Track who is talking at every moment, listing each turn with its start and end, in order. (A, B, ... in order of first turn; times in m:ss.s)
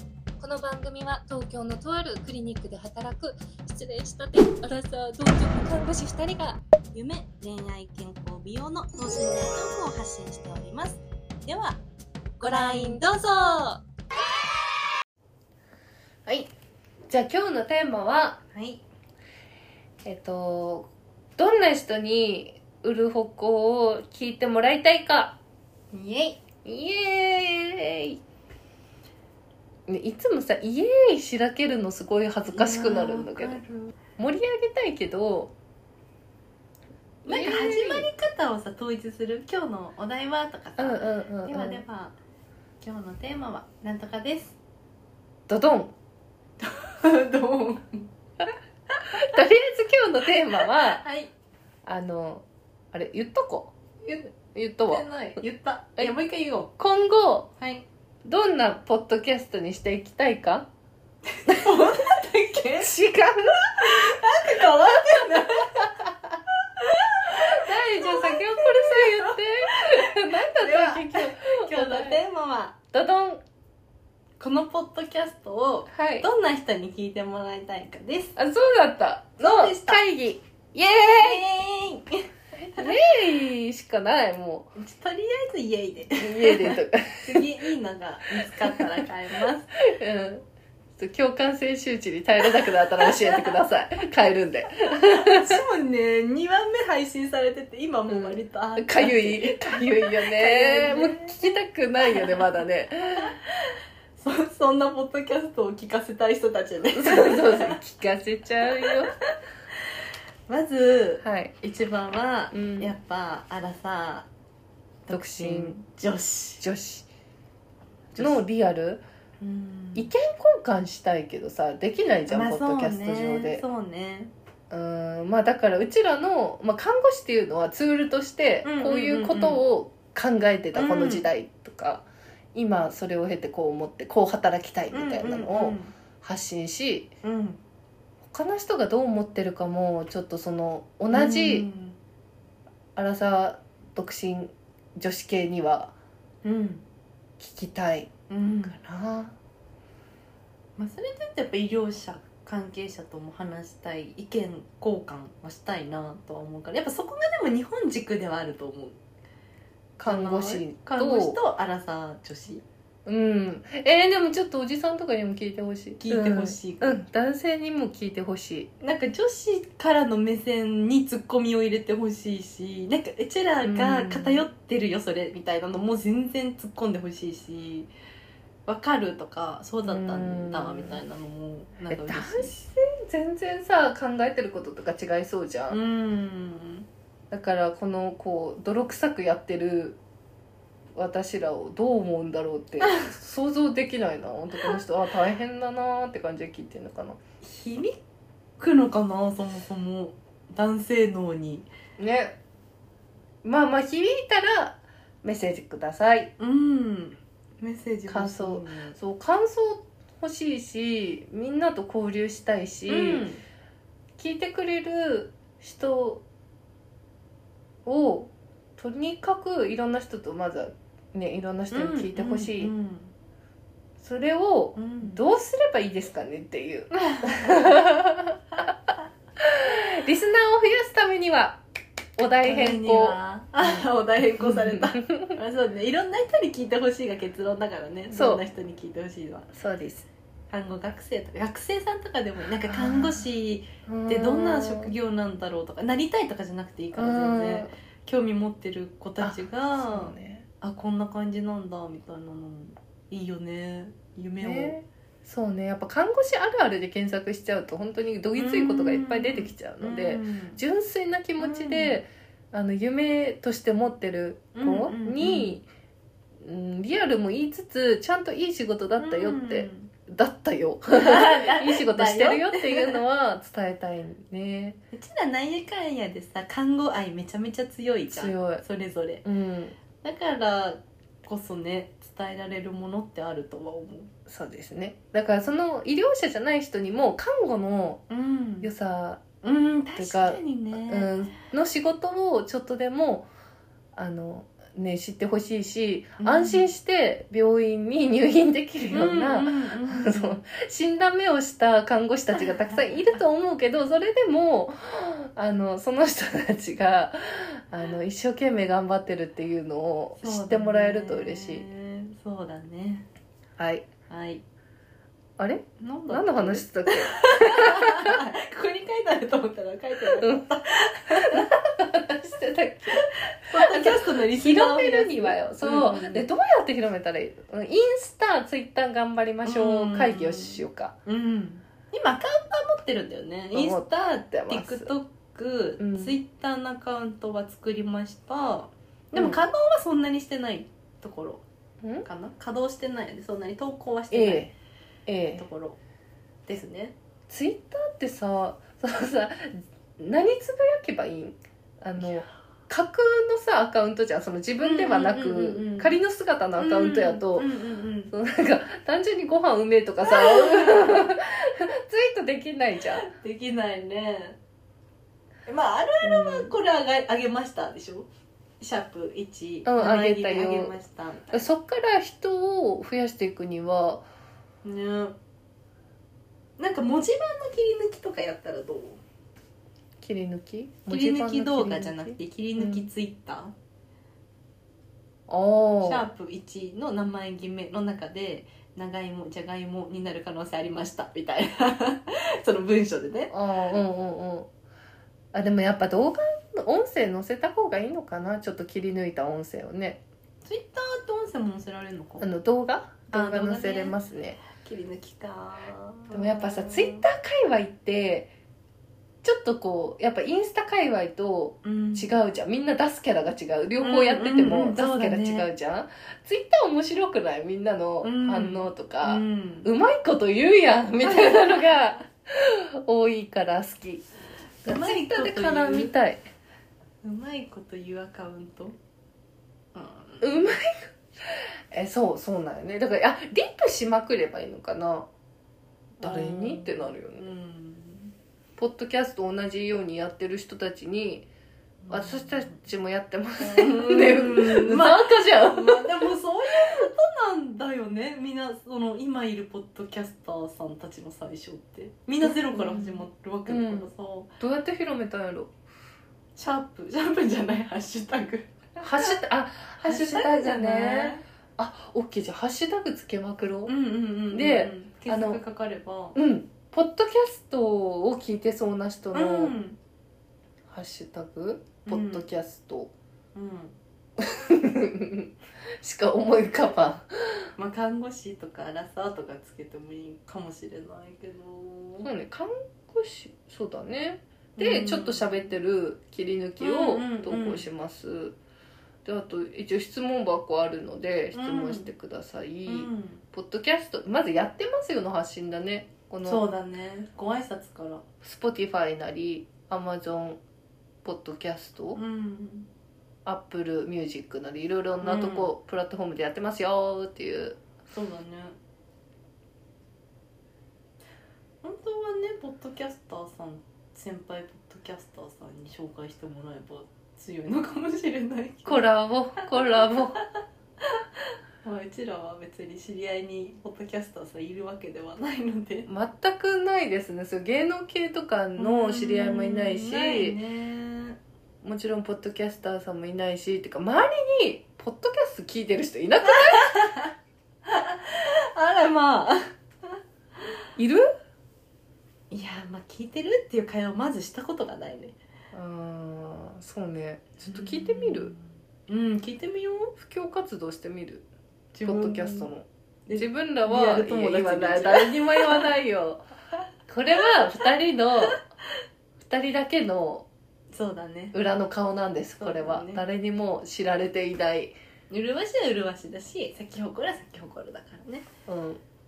0:00.4-0:06.6 A
0:06.9-0:11.8 B
0:12.4-0:13.6 B
0:12.5-0:13.0 A
0:17.1-0:18.4 C
0:18.5-0:18.8 B
0:20.0-0:25.4 C
0:25.9-0:26.4 B
0:26.6-0:28.2 C
0:29.9-0:33.6 C
0:32.5-0:33.9 B
0:34.2-0:35.5 C
0:37.2-0:38.1 C
0:37.2-0:42.2 B
0:40.8-0:41.8 C
0:42.8-0:44.6 B
0:45.5-0:45.9 C
0:46.6-0:48.1 B
0:49.1-0:51.0 C
0:50.7-0:51.3 B
0:51.8-0:55.1 C
0:54.9-0:56.7 B
0:56.8-0:57.5 C
0:57.6-0:57.8 B
0:58.2-1:00.7 C
1:01.4-1:02.9 B
1:02.8-1:03.9 C
1:03.8-1:05.9 B
1:06.8-1:12.8 B
1:07.4-1:12.2 C
1:12.9-1:13.4 C
1:14.4-1:18.4 B
1:15.9-1:16.3 C
1:18.4-1:21.4 C
1:19.4-1:20.0 B
1:20.8-1:22.9 B
1:22.6-1:24.8 C
1:24.8-1:29.8 B
1:26.1-1:27.5 C
1:28.3-1:28.9 C
1:29.8-1:30.4 C
1:31.0-1:35.6 C
1:32.8-1:33.5 B
1:35.0-1:41.3 B
1:38.1-1:43.4 C
1:42.1-1:42.3 B
1:43.3-1:47.8 B
1:46.9-1:49.1 C
1:50.5-1:54.3 B
1:51.2-1:51.5 C
1:52.5-1:52.9 C
1:55.1-1:56.6 B
1:55.1-1:55.8 C
1:56.6-1:57.1 C
1:58.2-1:58.4 B
1:58.2-1:59.0 C
1:59.4-2:00.1 B
1:59.9-2:03.6 C
2:02.3-2:04.3 B
2:04.7-2:17.1 C
2:08.6-2:09.6 B
2:10.7-2:11.3 B
2:14.9-2:15.9 B
2:17.2-2:17.6 B
2:18.3-2:21.7 C
2:21.1-2:22.0 B
2:23.0-2:25.9 C
2:26.4-2:26.8 B
2:27.4-2:28.1 C
2:28.3-2:28.8 B
2:28.6-2:29.4 C
2:30.8-2:39.0 B
2:40.0-2:41.4 C
2:40.0-2:42.6 B
2:43.0-2:48.7 C
2:46.0-2:47.0 B
2:48.8-2:57.9 B
2:53.6-2:54.4 C
2:58.6-3:02.6 B
2:59.8-3:01.0 C
3:01.9-3:05.8 C
3:05.7-3:06.9 B
3:07.3-3:10.0 C
3:10.9-3:17.2 C
3:17.4-3:18.0 B
3:18.6-3:21.7 B
3:22.0-3:22.4 C
3:23.4-3:26.3 C
3:26.4-3:29.0 B
3:28.1-3:33.3 C
3:32.8-3:33.4 B
3:34.2-3:36.2 C
3:37.8-3:42.7 C
3:41.7-3:43.1 B
3:44.0-3:48.7 C
3:44.7-3:45.2 B
3:47.1-3:47.8 B
3:49.4-3:51.6 C
3:52.2-3:53.9 C
3:52.4-3:59.5 B
3:54.4-3:55.4 C
3:58.1-3:58.4 C
3:59.5-4:00.1 C
4:00.5-4:14.8 B
4:02.7-4:03.3 C
4:03.8-4:04.9 C
4:06.9-4:07.7 C
4:09.2-4:10.5 C
4:14.4-4:25.7 C
4:18.3-4:20.6 B
4:21.4-4:22.0 B
4:24.5-4:25.6 B
4:26.4-4:34.8 C
4:29.0-4:29.9 B
4:31.0-4:33.0 B
4:34.9-4:39.2 B
4:38.1-4:38.6 C
4:39.2-4:39.8 C
4:40.0-4:44.1 B
4:44.3-4:48.0 C
4:48.1-4:48.7 B
4:48.6-4:49.2 C
4:49.4-4:51.2 B
4:50.0-4:53.3 C
4:53.9-5:11.7 C
4:56.2-4:56.7 B
4:58.9-5:00.4 B
5:02.3-5:03.2 B
5:10.2-5:13.1 B
5:13.6-5:13.9 C
5:14.1-5:14.4 B
5:15.4-5:18.2 C
5:15.8-5:21.5 B
5:20.2-5:20.5 C
5:21.3-5:31.0 C
5:22.9-5:26.3 B
5:29.4-5:41.4 B
5:33.5-5:34.9 C
5:35.8-5:36.2 C
5:39.1-5:39.4 C
5:42.0-5:44.5 B
5:44.1-5:44.5 C
5:45.1-5:45.4 C
5:45.3-5:45.8 B
5:46.5-5:47.0 B
5:47.3-5:57.5 C
5:52.0-5:52.3 B
5:54.6-5:56.0 B
5:56.6-5:58.1 B
5:58.1-6:03.1 C
6:00.0-6:01.1 B
6:02.9-6:04.4 B
6:05.5-6:08.1 B
6:06.0-6:06.6 C
6:08.6-6:11.4 B
6:09.6-6:10.8 C
6:11.3-6:14.0 C
6:14.6-6:15.2 B
6:16.6-6:19.0 B
6:20.0-6:22.9 C
6:20.9-6:23.5 B
6:25.3-6:26.1 C
6:25.8-6:33.4 B
6:33.3-6:34.5 C
6:35.3-6:40.0 C
6:40.4-6:42.3 B
6:42.2-6:44.4 C
6:43.1-6:47.0 B
6:46.1-6:48.3 C
6:49.2-7:04.0 C
6:51.6-6:52.1 B
6:53.8-6:55.5 B
6:58.0-6:59.7 B
7:01.0-7:01.8 B
7:04.6-7:05.9 B
7:04.6-7:06.2 C
7:07.0-7:08.8 B
7:09.7-7:10.6 B
7:10.2-7:15.1 C
7:16.0-7:18.1 B
7:16.0-7:17.3 C
7:18.6-7:21.3 C
7:21.8-7:22.6 B
7:21.9-7:26.1 C
7:23.4-7:34.3 B
7:32.2-7:35.5 C
7:36.3-7:39.2 B
7:38.8-7:43.7 C
7:39.8-7:41.2 B
7:43.6-7:46.2 B
7:44.3-7:45.4 C
7:46.1-7:49.6 C
7:49.1-7:49.8 B
7:50.7-7:52.9 C
7:51.8-7:52.3 B
7:53.3-7:53.8 B
7:54.2-7:57.5 C
7:57.6-8:02.1 B
8:02.0-8:08.4 C
8:04.6-8:05.5 B
8:06.6-8:07.7 B
8:09.0-8:16.4 C
8:11.3-8:11.9 B
8:12.7-8:13.2 B
8:16.2-8:18.0 B
8:18.2-8:20.4 C
8:21.0-8:22.0 C
8:21.9-8:22.7 B
8:23.2-8:27.6 C
8:25.0-8:25.5 B
8:27.9-8:28.6 B
8:31.6-8:45.9 B
8:38.6-8:40.2 C
8:45.9-8:50.4 C
8:48.6-8:51.2 B
8:51.6-8:56.9 C
8:56.5-8:57.1 B
8:57.6-8:59.9 B
9:00.8-9:01.0 C
9:02.3-9:05.2 B
9:05.5-9:08.3 C
9:07.4-9:09.9 B
9:10.0-9:11.2 C
9:11.7-9:12.5 B
9:11.8-9:16.2 C
9:13.1-9:15.7 B
9:16.9-9:18.4 C
9:19.2-9:20.3 C
9:20.7-9:21.4 B
9:21.3-9:24.7 C
9:22.4-9:23.0 B
9:25.1-9:28.3 B
9:28.5-9:28.8 C